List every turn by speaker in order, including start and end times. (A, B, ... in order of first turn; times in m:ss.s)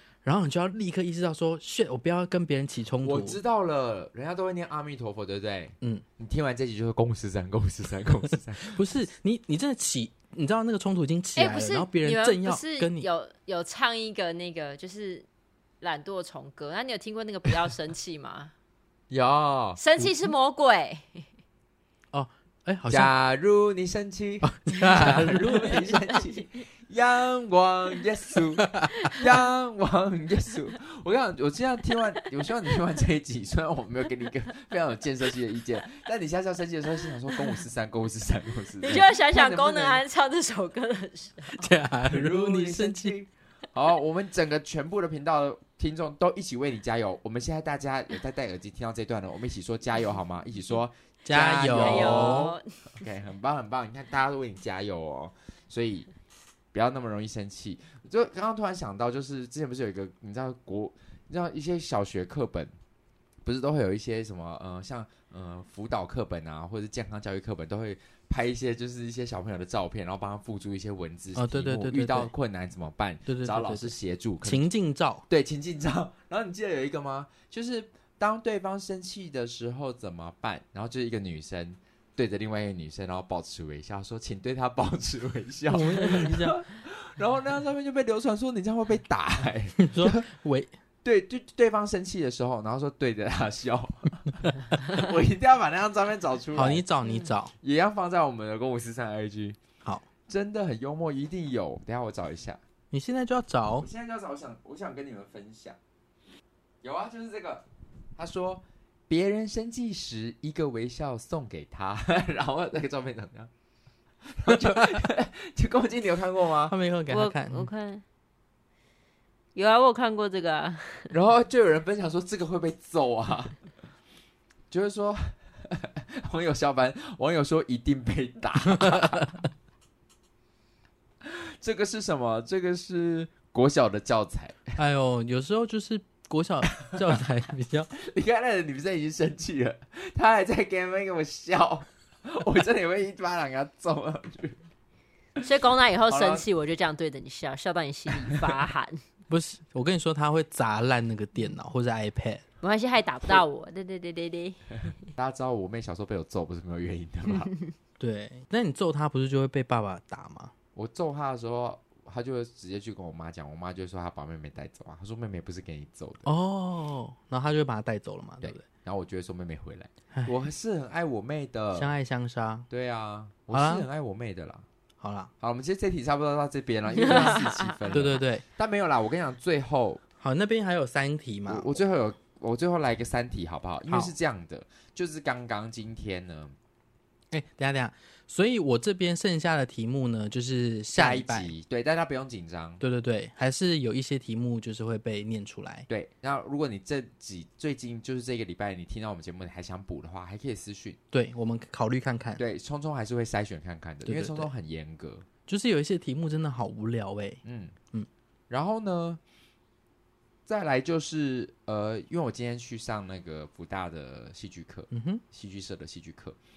0:00.2-0:03.4 A
0:03.0-0:08.9 B
0:08.6-0:13.1 A
0:11.4-0:15.3 C
0:15.8-0:18.5 C
0:19.1-0:19.8 B
0:19.8-0:21.3 C
0:22.1-0:23.1 A
0:22.9-0:40.0 B
0:24.4-0:25.9 A
0:38.8-0:41.7 C
0:41.6-0:43.2 A
0:42.1-0:56.1 B
0:51.2-0:52.5 A
0:51.7-0:52.7 C
0:56.7-1:02.7 B
1:03.4-1:14.7 B
1:11.4-1:12.3 A
1:13.3-1:15.2 A
1:15.3-1:30.3 B
1:25.7-1:26.6 A
1:29.8-1:30.7 A
1:31.0-1:36.8 B
1:36.6-1:37.5 A
1:37.6-1:39.6 B
1:40.3-1:42.6 B
1:42.9-1:43.9 A
1:43.8-1:45.8 B
1:46.8-1:47.6 B
1:48.2-1:53.5 B
1:54.3-1:56.8 B
1:56.7-1:57.7 A
1:57.1-1:58.0 C
1:59.6-2:01.1 C
2:01.1-2:03.6 B
2:04.7-2:09.4 B
2:11.2-2:14.8 B
2:14.8-2:17.9 A
2:18.0-2:24.6 B
2:25.4-2:29.0 C
2:26.1-2:26.4 B
2:29.3-2:32.4 A
2:32.6-2:34.7 C
2:35.2-2:37.5 B
2:38.0-2:40.5 A
2:40.8-2:46.3 B
2:46.2-2:48.6 A
2:48.4-2:51.9 B
2:51.8-2:52.7 A
2:52.7-2:54.7 B
2:53.5-2:53.9 A
2:55.0-2:55.3 A
2:55.4-3:00.0 B
2:57.0-2:58.0 C
2:57.9-2:58.4 A
3:00.2-3:01.8 A
3:01.5-3:06.6 B
3:03.9-3:04.1 A
3:07.3-3:11.5 A
3:10.9-3:12.8 B
3:12.8-3:15.9 A
3:15.9-3:21.0 B
3:21.1-3:22.4 A
3:22.4-3:25.3 B
3:24.0-3:24.5 A
3:25.5-3:27.4 A
3:27.4-3:27.8 B
3:28.5-3:29.2 B
3:30.5-3:36.4 B
3:34.9-3:35.2 A